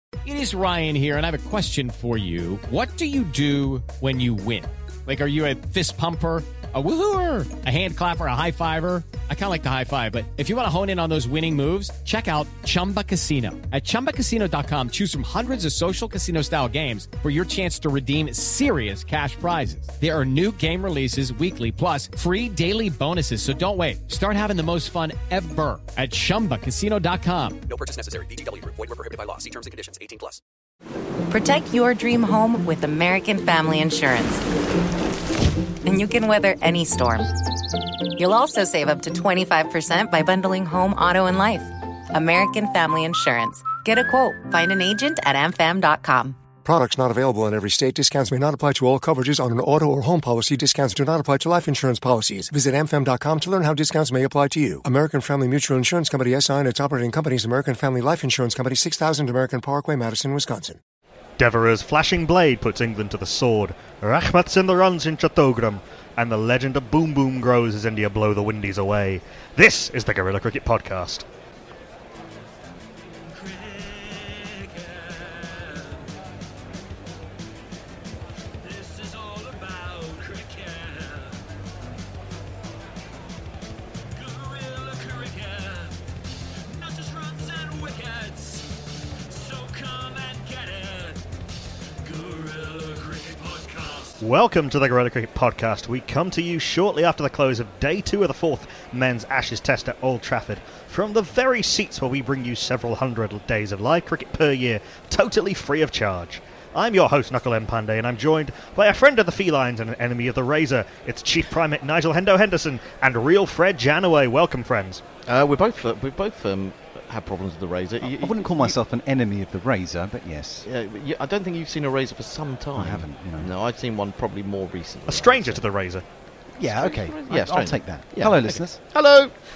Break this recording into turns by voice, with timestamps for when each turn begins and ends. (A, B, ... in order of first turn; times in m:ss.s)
0:00.2-0:27.6 A
0:27.7-0:30.4 B
0:31.3-0:34.4 C
0:35.8-0:37.3 C
0:38.2-0:46.4 C
0:46.6-1:00.8 D
1:01.4-1:11.2 E
1:34.1-1:55.0 E
1:55.3-1:58.7 F
1:58.0-2:00.7 G
2:00.6-2:05.6 F
2:02.8-2:03.5 G
2:05.1-2:06.0 E
2:06.6-2:08.8 G
2:06.7-2:09.3 F